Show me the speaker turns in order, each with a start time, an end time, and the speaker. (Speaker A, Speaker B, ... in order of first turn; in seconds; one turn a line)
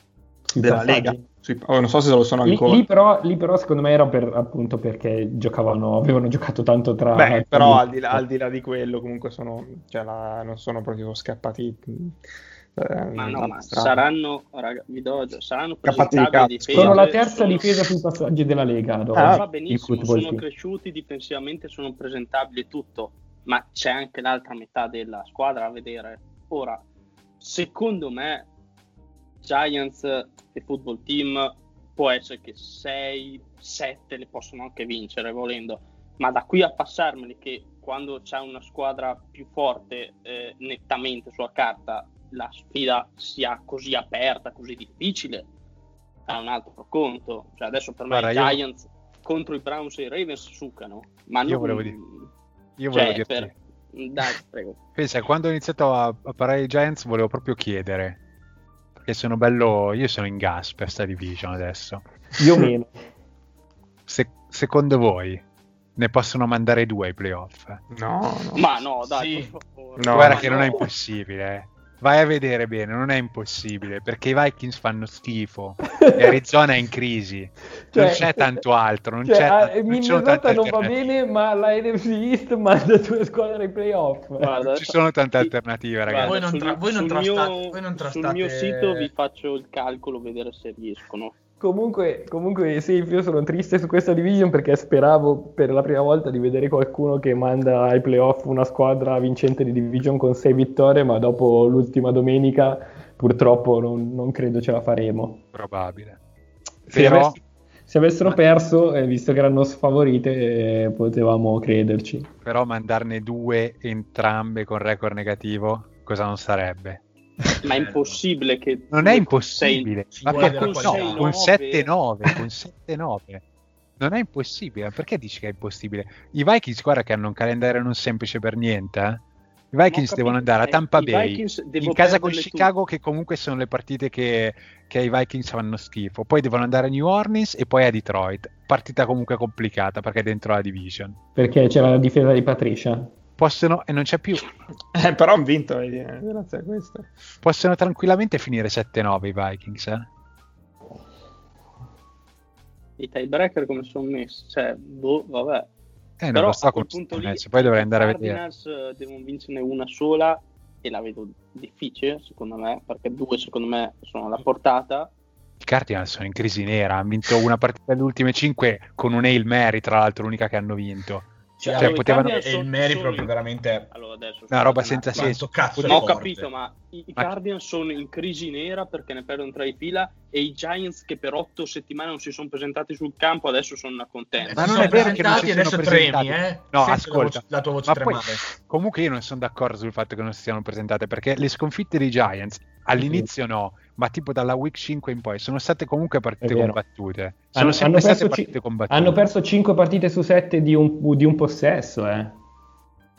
Speaker A: 0.5-1.2
Speaker B: 0.6-2.8
Speaker A: 2.4-8.2
Speaker B: 7.1-12.2
Speaker B: 12.8-14.0
Speaker C: 13.2-17.7
Speaker B: 15.9-17.0
Speaker A: 16.7-20.4
Speaker B: 19.1-19.4
Speaker C: 19.2-26.8
Speaker C: 27.4-28.4
Speaker C: 29.4-45.5
Speaker C: 46.3-52.3
Speaker D: 48.1-48.6
Speaker D: 51.4-52.0
Speaker D: 52.8-53.5
Speaker C: 52.9-54.8
Speaker D: 55.0-58.2
Speaker D: 59.0-62.0
Speaker A: 62.4-63.0
Speaker D: 64.1-65.4
Speaker D: 66.0-67.8
Speaker B: 67.9-68.7
Speaker C: 68.5-70.8
Speaker E: 69.1-69.5
Speaker B: 70.0-70.5
Speaker D: 70.1-81.0
Speaker A: 76.0-76.3
Speaker A: 77.9-78.6
Speaker A: 79.2-84.5
Speaker C: 84.4-85.5
Speaker D: 84.6-86.4
Speaker C: 86.0-91.3
Speaker E: 86.2-89.1
Speaker A: 91.6-105.4
Speaker D: 105.5-106.2
Speaker A: 106.9-112.3
Speaker D: 106.9-107.4
Speaker D: 112.4-117.0
Speaker C: 117.6-121.9
Speaker E: 117.6-118.2
Speaker D: 118.9-123.4
Speaker E: 120.1-121.3
Speaker D: 124.0-141.2
Speaker C: 129.9-132.7
Speaker A: 141.3-143.1
Speaker D: 143.4-144.5
Speaker B: 144.9-147.1
Speaker D: 147.4-150.1
Speaker C: 153.0-155.7
Speaker D: 156.2-158.4
Speaker C: 156.3-165.1
Speaker D: 165.6-172.3
Speaker E: 171.6-173.9
Speaker C: 171.6-173.3
Speaker C: 173.9-185.6
Speaker D: 174.5-176.1
Speaker E: 175.1-176.5
Speaker E: 184.4-188.4
Speaker D: 184.5-199.2
Speaker A: 193.0-193.3
Speaker A: 196.4-196.8
Speaker A: 197.5-202.3